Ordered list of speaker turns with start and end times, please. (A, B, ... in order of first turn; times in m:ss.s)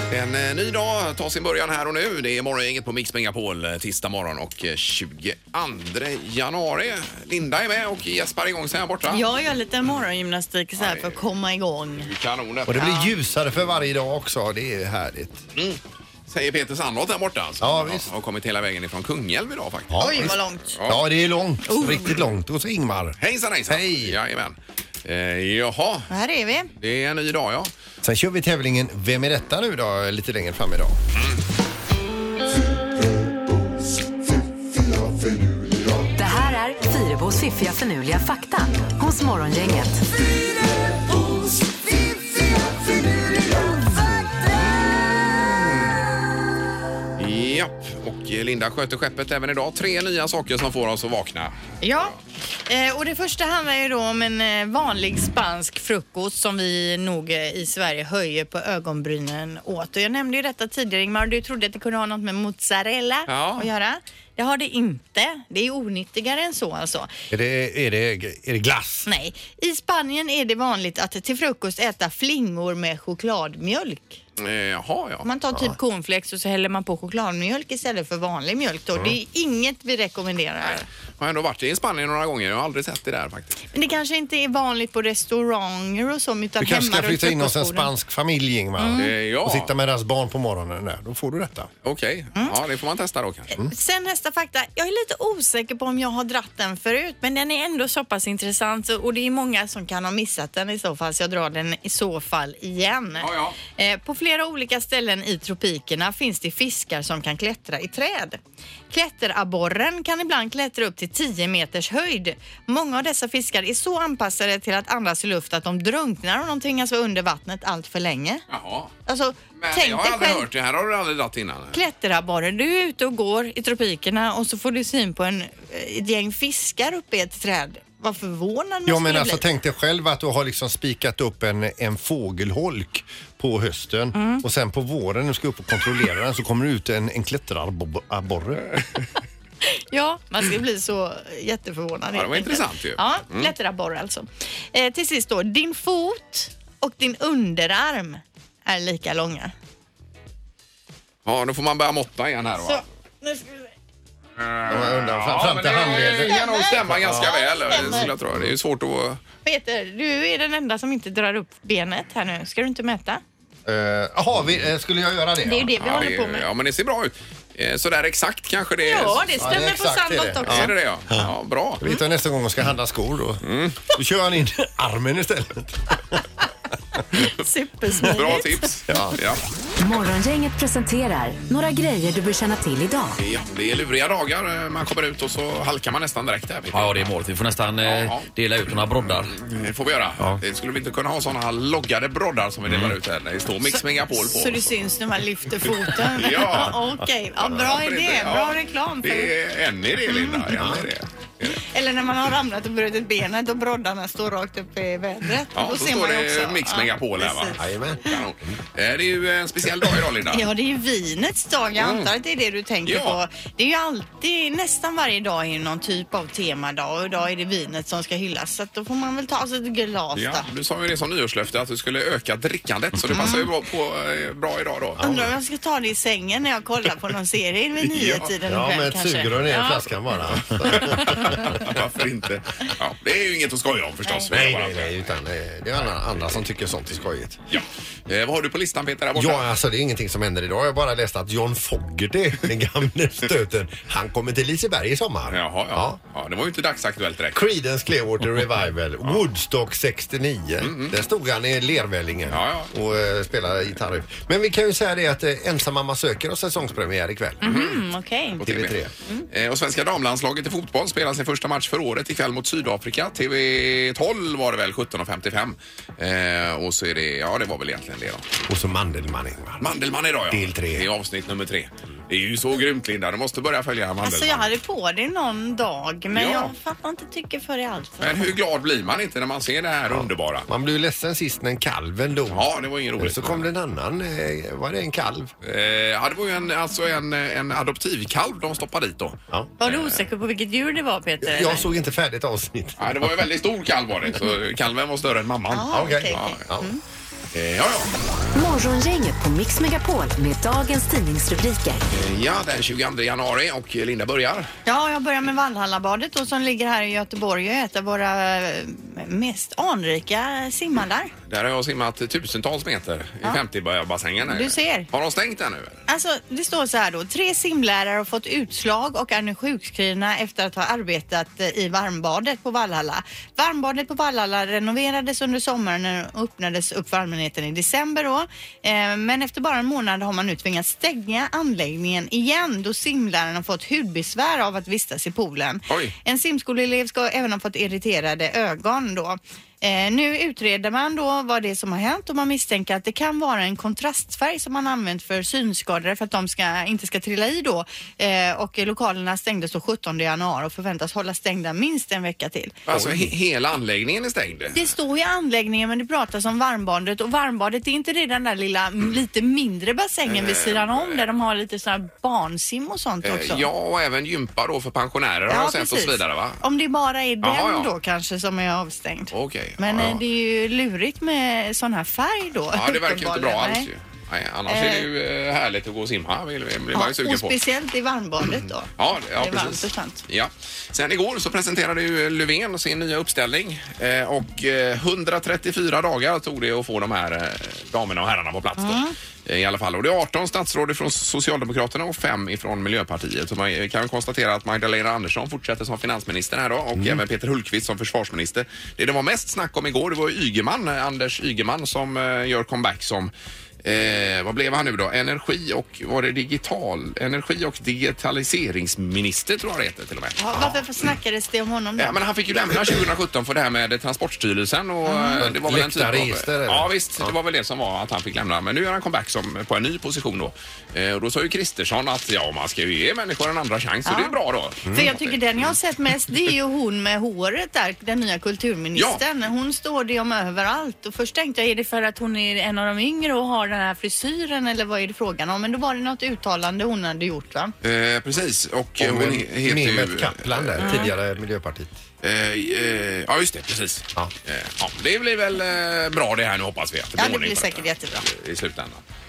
0:00.1-0:09.2 A
0:09.1-0:12.1 B
0:10.8-0:11.2 A
0:12.0-0:13.2 A
0:12.7-0:15.4 C
0:12.8-0:13.1 B
0:15.6-0:21.0 A
0:17.6-0:18.1 C
0:19.9-0:23.2 C
0:20.0-0:20.8 B
0:21.7-0:22.1 B
0:23.2-0:26.1 A
0:23.7-0:24.2 C
0:26.1-0:26.7 B
0:26.8-0:27.7 A
0:28.0-0:31.0 C
0:36.2-0:40.0 D
0:44.0-0:45.9 A
0:47.2-0:51.5 A
0:51.8-0:52.2 B
0:52.7-1:07.1 B
1:03.3-1:03.7 A
1:07.3-1:09.1 C
1:09.1-1:14.2 B
1:14.4-1:15.2 A
1:15.2-1:20.9 B
1:15.5-1:15.8 C
1:21.2-1:23.6 A
1:23.7-1:27.9 B
1:26.6-1:31.7 C
1:28.8-1:29.1 B
1:29.0-1:29.7 A
1:31.8-1:33.5 A
1:33.6-1:48.4 B
1:43.2-1:43.6 A
1:48.9-1:58.4 B
1:58.5-1:58.9 A
1:59.1-2:00.5 B
1:59.6-2:01.8 A
2:01.7-2:09.4 B
2:08.9-2:18.7 C
2:14.1-2:14.4 B
2:19.7-2:29.5 B
2:22.1-2:23.5 A
2:31.3-2:32.8 A
2:32.6-2:33.7 B
2:34.4-2:39.2 A
2:34.7-2:36.4 C
2:36.0-2:38.1 B
2:36.9-2:38.5 C
2:39.4-2:43.2 B
2:43.7-2:46.0 C
2:45.4-2:46.5 B
2:45.8-2:49.3 A
2:48.8-2:50.7 B
2:49.4-2:56.2 C
2:50.5-2:51.8 A
2:53.4-2:53.9 A
2:57.2-2:58.7 B
2:58.1-2:59.4 A
2:58.9-2:59.2 C
2:59.8-3:03.2 D
3:03.2-3:07.2 A
3:06.7-3:09.3 E
3:07.8-3:08.3 A
3:08.9-3:14.7 A
3:13.6-3:19.4 B
3:16.0-3:16.8 A
3:16.5-3:16.9 C
3:17.4-3:21.6 A
3:20.0-3:20.7 B
3:20.5-3:20.9 C
3:21.5-3:27.7 B
3:25.5-3:30.5 A
3:27.6-3:28.0 C
3:30.2-3:40.5 B
3:31.8-3:32.1 A
3:32.9-3:33.2 A
3:40.2-3:45.1 A
3:43.1-3:43.5 B
3:45.0-3:45.3 C
3:45.0-3:49.9 B
3:47.8-3:48.3 A
3:48.5-3:51.6 C
3:50.4-3:55.2 A
3:50.7-3:51.1 B
3:54.0-3:54.3 B
3:54.3-3:57.4 C
3:57.5-3:59.5 A
3:59.2-4:06.0 C
4:05.3-4:07.4 A
4:07.3-4:17.4 C
4:10.6-4:11.0 A
4:12.3-4:12.7 A
4:17.4-4:18.4 B
4:17.4-4:17.8 A
4:18.4-4:18.8 A
4:18.4-4:18.9 C
4:19.3-4:28.3 A
4:28.5-4:29.7 C
4:29.6-4:34.5 A
4:30.3-4:30.9 C
4:34.0-4:38.3 B
4:36.1-4:36.5 A
4:38.0-4:40.5 A
4:40.5-4:42.5 C
4:42.3-4:43.5 A
4:43.0-4:45.3 C
4:45.4-4:50.0 A
4:49.6-4:51.7 B
4:51.2-4:53.2 C
4:52.8-4:56.4 A
4:55.5-4:56.8 B
4:55.7-4:56.7 C
4:57.3-4:57.9 A
4:58.4-5:01.8 D
5:01.9-5:04.5 A
5:04.7-5:11.1 B
5:11.3-5:15.8 A
5:14.3-5:14.9 B
5:15.9-5:52.6 B
5:35.7-5:35.9 A
5:52.7-5:54.7 A
5:52.7-5:53.1 C
5:54.5-6:03.5 B
6:00.1-6:01.0 A
6:03.0-6:06.4 A
6:05.3-6:13.7 B
6:07.2-6:07.7 A
6:09.1-6:10.0 A
6:12.5-6:17.4 A
6:14.5-6:14.9 B
6:16.7-6:20.0 B
6:18.8-6:43.1 A
6:28.6-6:28.9 B
6:43.6-6:50.4 A
6:50.2-6:52.0 B
6:51.8-7:05.5 A
6:54.9-6:55.3 B
6:55.2-6:57.1 C
7:03.9-7:04.2 B
7:04.7-7:04.9 C
7:04.7-7:17.5 B
7:08.8-7:09.0 A
7:17.6-7:21.0 A
7:18.8-7:21.8 C
7:20.6-7:20.9 B
7:22.0-7:28.8 A
7:27.0-7:28.1 B